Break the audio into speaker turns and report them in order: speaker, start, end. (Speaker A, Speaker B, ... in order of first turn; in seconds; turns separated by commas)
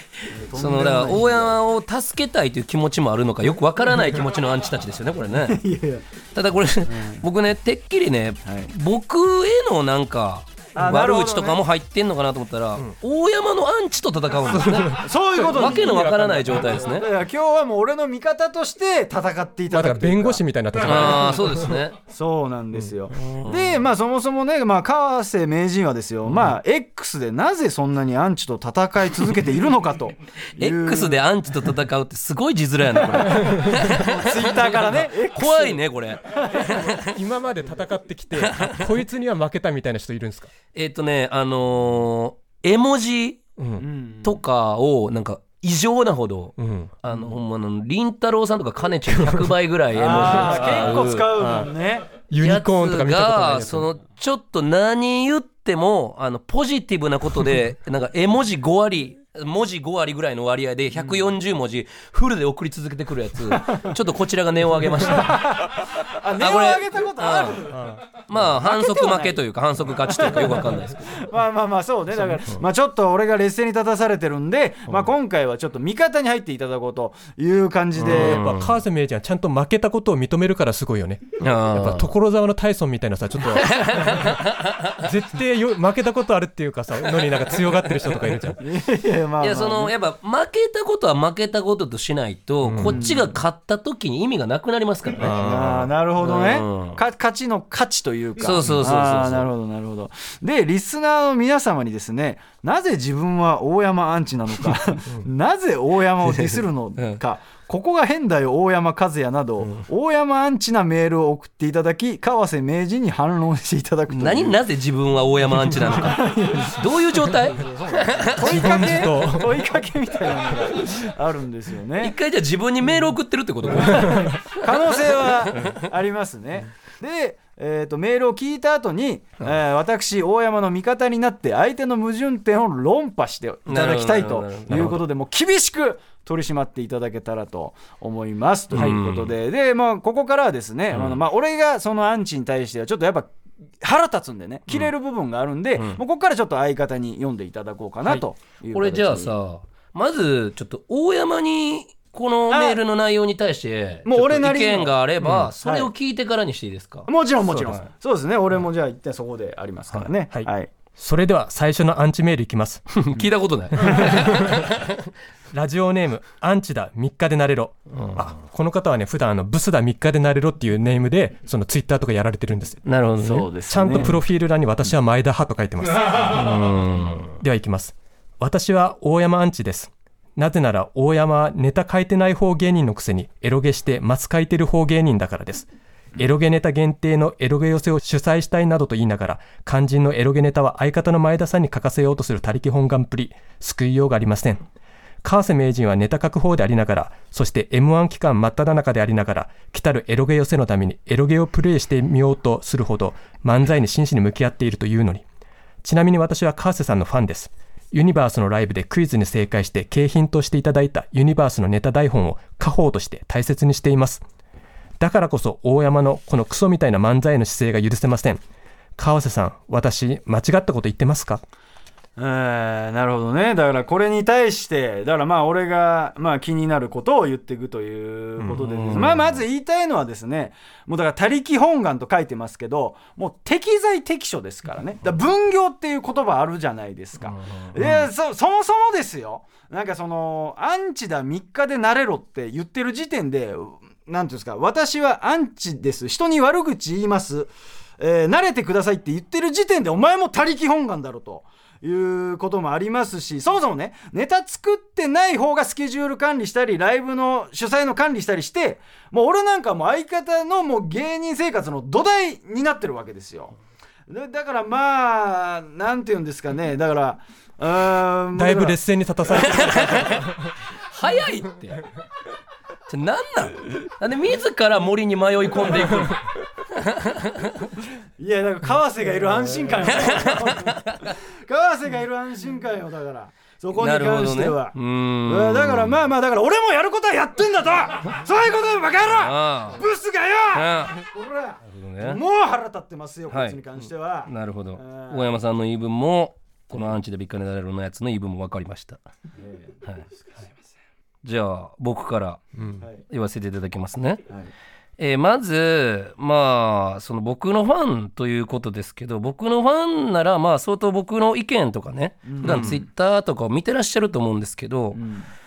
Speaker A: 0.3-1.6, Speaker B: 0.3-5.6, Speaker A: 5.3-6.0, Speaker B: 6.3-17.1, Speaker A: 6.9-7.2, Speaker A: 8.4-8.7, Speaker A: 10.8-11.6, Speaker C: 14.6-16.6, Speaker A: 14.9-20.4, Speaker C: 19.7-21.8, Speaker B: 20.8-22.0, Speaker A: 22.1-31.2, Speaker B: 23.1-23.7, Speaker B: 30.6-37.2, Speaker A: 33.0-36.9, Speaker C: 33.4-33.9, Speaker C: 36.9-40.5, Speaker B: 38.5-38.8, Speaker B: 40.7-43.4, Speaker C: 43.6-43.8, Speaker A: 43.8-44.4, Speaker B: 44.2-51.3, Speaker C: 46.6-47.0, Speaker C: 49.1-49.5, Speaker A: 49.9-52.1, Speaker C: 51.4-51.7, Speaker C: 52.3-53.9, Speaker B: 52.4-67.7, Speaker A: 65.0-67.8, Speaker C: 67.7-68.0, Speaker B: 68.3-71.2, Speaker A: 68.3-69.4, Speaker A: 70.0-78.4, Speaker B: 78.0-78.7, Speaker C: 78.0-84.4, Speaker B: 81.4-82.1, Speaker B: 83.5-85.0, Speaker C: 85.0-88.6, Speaker A: 88.6-89.9, Speaker B: 89.4-95.3, Speaker C: 92.6-93.0, Speaker A: 92.8-93.3, Speaker C: 95.2-95.9, Speaker A: 95.3-114.6, Speaker B: 96.2-97.0, Speaker B: 98.4-99.5, Speaker B: 106.2-107.2, Speaker B: 114.1-119.1, Speaker A: 115.9-122.1, Speaker C: 118.4-119.6, Speaker B: 122.0-125.8, Speaker A: 123.8-143.3, Speaker C: 124.1-124.3, Speaker B: 133.7-135.0, Speaker B: 138.7-139.3, Speaker B: 140.9-141.2, Speaker A: 143.8-149.3, Speaker B: 148.7-157.8, Speaker A: 152.5-152.8, Speaker A: 154.0-154.9, Speaker C: 155.2-155.5, Speaker A: 155.6-155.9, Speaker A: 157.1-160.7, Speaker C: 160.3-162.9, Speaker B: 162.9-165.1, Speaker C: 163.8-164.7, Speaker C: 165.5-172.8, Speaker B: 172.8-173.5, Speaker A: 173.2-174.2, Speaker C: 173.7-176.6, Speaker B: 176.3-177.3, Speaker C: 177.3-194.7, Speaker C: 195.2-205.2, Speaker C: 205.8-214.2, Speaker C: 215.0-218.4, Speaker C: 219.0-221.4, Speaker A: 222.2-263.5, Speaker C: 228.4-229.1, Speaker B: 228.6-229.4, Speaker B: 237.2-238.1, Speaker A: 264.1-268.8, Speaker C: 268.3-270.3, Speaker A: 269.3-269.7, Speaker B: 269.5-270.3, Speaker B: 270.9-271.8, Speaker B: 272.9-277.7, Speaker A: 278.2-295.3, Speaker B: 280.1-281.1, Speaker B: 283.8-286.0, Speaker B: 289.1-289.8, Speaker B: 290.5-291.0, Speaker B: 291.7-292.2, Speaker B: 293.3-299.0, Speaker A: 299.4-299.8, Speaker B: 301.2-302.4, Speaker B: 303.1-304.2, Speaker B: 305.0-315.0, Speaker A: 312.2-312.7, Speaker C: 312.4-312.8, Speaker A: 314.9-315.3